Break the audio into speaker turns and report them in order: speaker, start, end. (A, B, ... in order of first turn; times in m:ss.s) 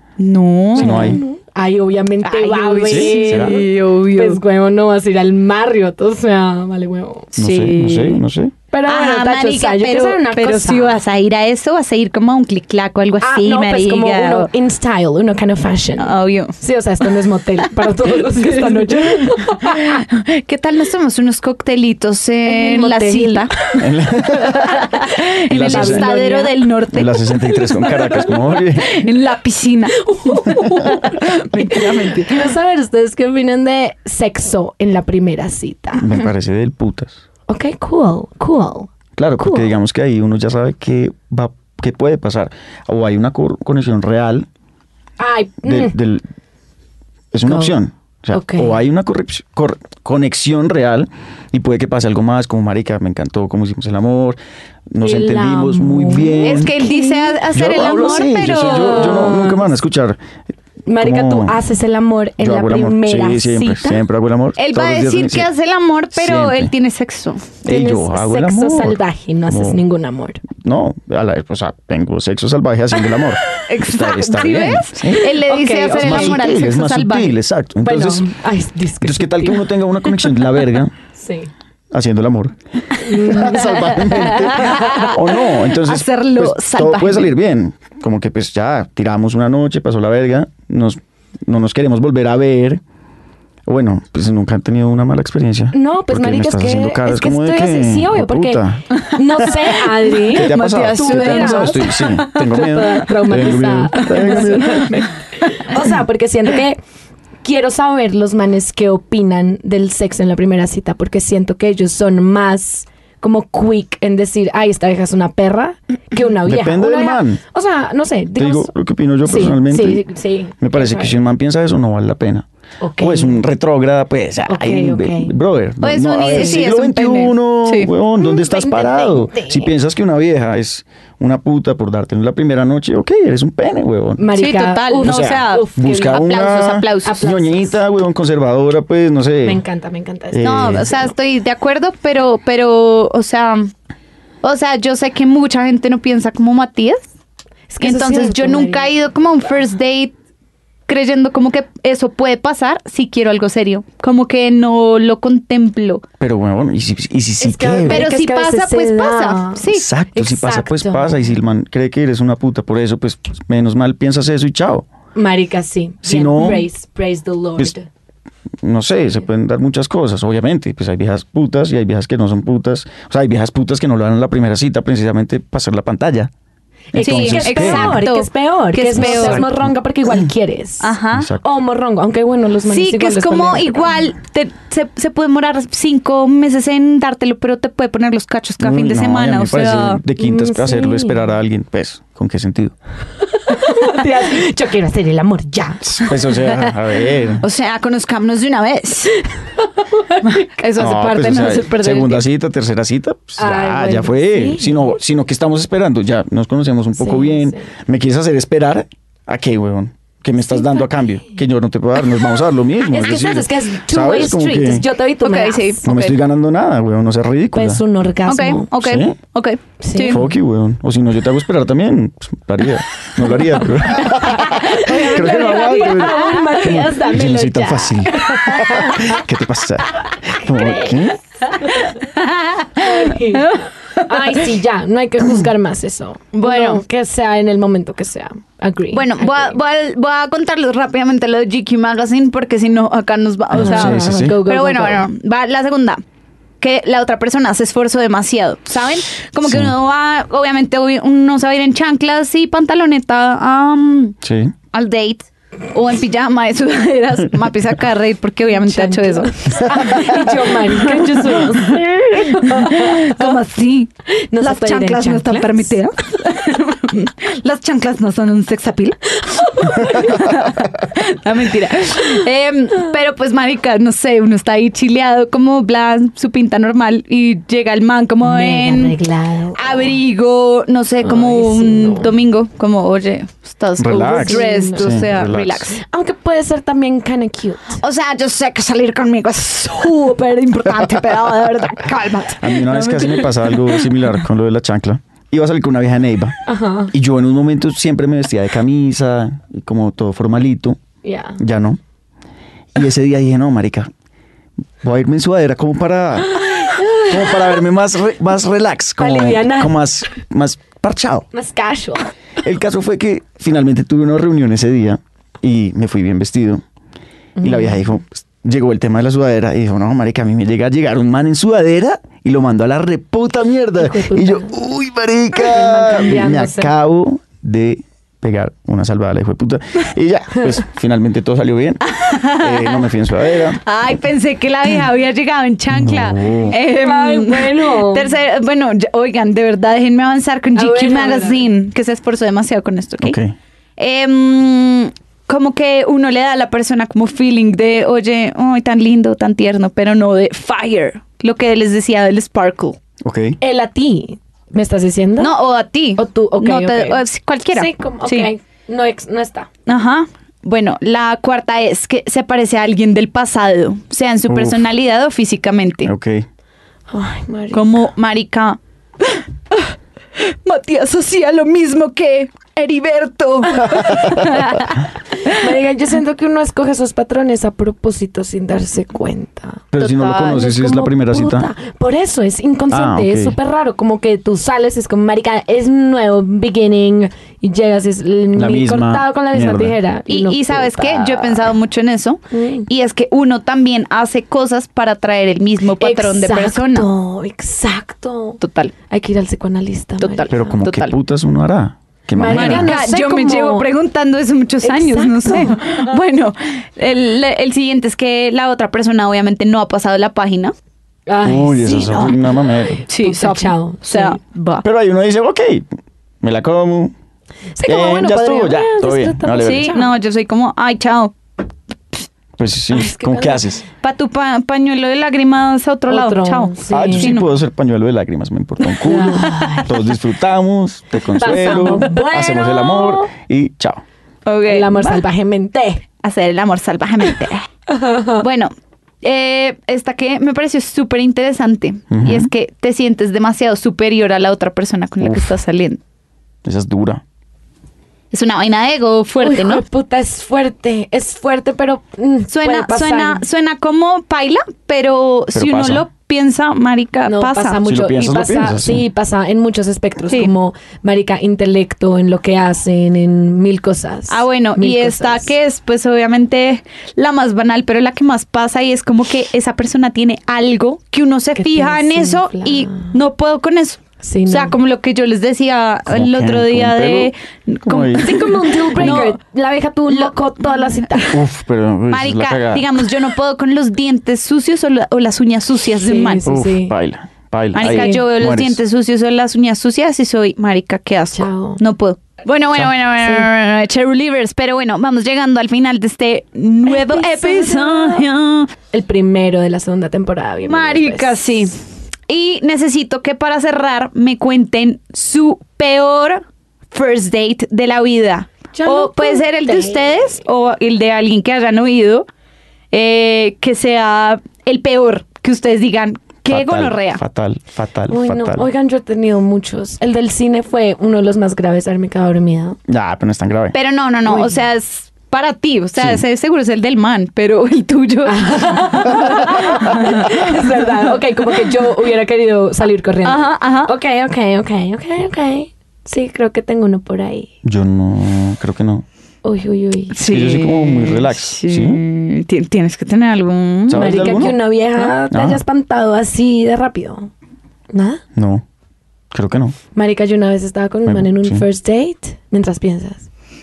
0:00.2-0:01.2 A
0:00.7-0:01.2 B
0:00.7-0:08.2 C
0:02.2-0:04.4 A
0:02.9-0:03.6 B
0:07.3-0:08.5 B
0:07.4-0:08.0 A
0:08.7-0:11.0 C
0:08.9-0:14.5 A
0:13.2-0:20.0 C
0:16.0-0:16.6 A
0:17.7-0:23.5 A
0:22.4-0:23.8 C
0:23.8-0:24.8 B
0:24.6-0:26.6 C
0:24.7-0:27.3 A
0:25.5-0:26.1 B
0:26.9-0:29.0 B
0:27.6-0:28.6 C
0:28.8-0:32.5 A
0:30.0-0:36.1 C
0:35.9-0:37.1 B
0:37.5-0:39.7 C
0:39.2-0:44.5 B
0:45.2-0:45.9 C
0:45.6-0:46.2 B
0:47.3-0:54.4 B
0:47.4-0:47.8 C
0:48.3-0:48.8 C
0:54.9-0:56.8 B
0:55.0-0:57.4 C
0:56.4-0:59.3 A
0:57.5-1:00.2 B
0:58.4-0:59.7 C
1:00.9-1:04.0 C
1:01.0-1:01.6 B
1:02.4-1:05.5 B
1:04.6-1:07.6 A
1:06.1-1:06.7 B
1:07.6-1:09.0 B
1:07.6-1:10.4 C
1:09.5-1:09.8 B
1:10.5-1:15.2 B
1:13.1-1:13.6 C
1:13.7-1:17.3 A
1:15.2-1:16.4 C
1:16.0-1:18.3 B
1:17.8-1:19.7 C
1:19.0-1:20.9 B
1:21.2-1:21.5 C
1:21.9-1:32.8 B
1:23.0-1:25.1 C
1:24.0-1:27.3 A
1:33.6-1:38.8 B
1:35.7-1:46.8 C
1:38.9-1:42.2 A
1:40.3-1:45.0 B
1:44.1-1:44.5 A
1:47.4-1:58.7 C
1:56.4-1:57.4 B
1:58.4-2:00.0 B
1:59.2-2:01.2 C
2:00.6-2:02.4 B
2:02.8-2:03.4 C
2:03.0-2:14.3 B
2:04.5-2:05.3 C
2:05.8-2:07.9 A
2:06.3-2:06.6 C
2:08.2-2:09.7 C
2:14.2-2:16.3 C
2:14.4-2:17.2 A
2:15.0-2:19.6 B
2:17.0-2:17.8 C
2:19.4-2:20.5 C
2:20.3-2:21.1 B
2:20.4-2:23.7 A
2:24.4-2:27.0 A
2:27.7-2:28.9 C
2:27.8-2:30.1 A
2:30.9-2:36.0 A
2:36.2-2:38.1 B
2:37.4-2:41.3 C
2:37.9-2:39.9 A
2:39.7-2:44.8 B
2:45.2-2:47.9 C
2:46.0-2:46.6 B
2:48.6-2:56.3 B
2:56.9-2:58.0 B
2:56.9-3:04.0 C
2:57.0-2:59.4 A
2:59.0-2:59.7 B
3:00.8-3:01.3 A
3:01.1-3:01.4 B
3:02.7-3:10.0 A
3:08.6-3:12.7 B
3:10.2-3:11.3 C
3:13.4-3:16.2 C
3:15.8-3:17.4 B
3:17.4-3:19.3 A
3:19.8-3:20.5 C
3:20.2-3:22.2 A
3:20.8-3:34.8 B
3:23.4-3:25.0 C
3:27.0-3:27.7 C
3:30.5-3:30.8 C
3:32.9-3:35.9 C
3:35.2-3:36.1 A
3:35.8-3:37.8 B
3:37.5-3:38.7 C
3:38.3-3:40.2 A
3:38.8-3:39.2 B
3:39.8-3:40.3 C
3:40.1-3:51.2 B
3:43.9-3:49.2 C
3:44.9-3:46.4 A
3:50.4-3:52.0 C
3:51.8-3:54.4 A
3:52.8-3:59.5 C
3:56.3-3:56.8 A
3:58.9-4:06.0 A
4:03.5-4:04.4 B
4:03.6-4:05.0 C
4:06.6-4:14.2 A
4:09.4-4:09.7 B
4:14.2-4:14.5 B
4:14.7-4:39.0 A
4:18.6-4:23.3 C
4:24.3-4:25.7 C
4:29.2-4:30.4 C
4:38.2-4:40.0 C
4:39.5-4:45.8 A
4:41.0-4:42.1 C
4:43.8-4:45.7 B
4:44.0-4:45.2 C
4:45.8-4:47.8 C
4:47.8-4:53.9 A
4:52.4-4:56.4 B
4:56.4-4:56.9 C
4:56.9-5:00.8 B
5:01.0-5:01.4 C
5:01.4-5:01.8 B
5:02.7-5:03.9 B
5:04.8-5:06.5 B
5:06.3-5:07.5 C
5:07.0-5:11.2 B
5:09.0-5:09.8 C
5:11.3-5:12.0 C
5:12.4-5:16.6 B
5:17.4-5:17.8 C
5:17.4-5:33.6 B
5:23.8-5:24.5 C
5:25.3-5:26.7 C
5:31.9-5:32.9 A
5:33.6-5:43.2 A
5:35.7-5:36.5 B
5:36.5-5:38.1 C
5:40.5-5:41.4 C
5:43.0-5:43.3 B
5:43.8-5:52.8 A
5:53.0-5:53.4 B
5:53.4-5:55.3 C
5:55.2-5:58.3 A
5:56.0-5:57.0 C
5:57.5-5:59.5 C
5:59.6-6:05.9 A
6:04.3-6:04.6 B
6:05.8-6:06.2 B
6:06.9-6:07.8 C
6:07.5-6:14.8 A
6:13.6-6:13.8 C
6:15.2-6:31.5 C
6:19.7-6:21.5 B
6:19.8-6:20.4 A
6:22.7-6:23.4 B
6:28.3-6:29.8 B
6:30.1-6:36.9 A
6:32.3-6:32.7 C
6:35.8-6:38.4 C
6:38.4-6:38.7 A
6:38.9-6:40.5 C
6:40.0-6:40.9 A
6:40.3-6:42.7 B
6:42.2-6:43.7 C
6:42.3-6:50.5 A
6:44.6-6:46.0 C
6:51.1-6:54.2 C
6:51.2-6:52.8 B
6:52.9-6:54.6 A
6:54.6-6:55.7 B
6:56.2-6:56.9 B
6:57.6-6:59.9 C
6:57.6-6:59.7 B
6:59.3-7:01.1 A
7:02.4-7:03.6 B
7:02.7-7:03.4 C
7:03.8-7:07.3 A
7:05.9-7:07.1 C
7:06.7-7:13.8 B
7:08.8-7:09.7 C
7:11.1-7:13.1 C
7:11.5-7:11.9 A
7:14.2-7:15.0 A
7:14.5-7:15.8 C
7:16.0-7:17.5 A
7:17.7-7:18.2 C
7:18.2-7:25.8 A
7:21.9-7:22.3 B
7:25.0-7:25.4 B
7:26.4-7:27.0 B
7:28.1-7:29.6 A
7:29.2-7:33.2 C
7:32.3-7:37.6 A
7:35.3-7:35.8 B
7:37.0-7:45.3 C
7:37.6-7:38.8 B
7:44.1-7:59.2 A
7:51.4-7:52.9 C
7:54.0-7:54.6 C
7:55.9-7:57.1 B
7:57.6-7:59.1 B
7:58.0-8:01.2 C
7:59.9-8:01.0 A
8:01.1-8:02.8 B
8:01.9-8:06.2 A
8:05.8-8:06.7 C
8:06.2-8:08.6 B
8:07.5-8:18.5 A
8:07.6-8:08.0 C
8:11.1-8:11.6 C
8:13.0-8:13.3 C
8:16.6-8:18.0 C
8:18.7-8:21.1 C
8:20.4-8:21.5 A
8:22.1-8:32.0 A
8:28.6-8:30.1 C
8:32.7-8:37.0 A
8:36.3-8:38.5 B
8:37.9-8:42.6 C
8:42.7-8:43.5 B
8:43.5-8:51.5 A
8:44.0-8:44.3 C
8:45.8-8:46.0 B
8:48.0-8:57.3 C
8:53.0-8:53.7 A
8:57.4-8:58.8 B
8:59.2-9:00.0 C
8:59.9-9:04.3 A
9:00.0-9:01.8 B
9:03.7-9:05.4 B
9:03.7-9:07.1 C
9:07.7-9:08.0 C
9:08.1-9:08.4 B
9:09.1-9:09.6 B
9:09.7-9:13.1 C
9:10.8-9:11.4 B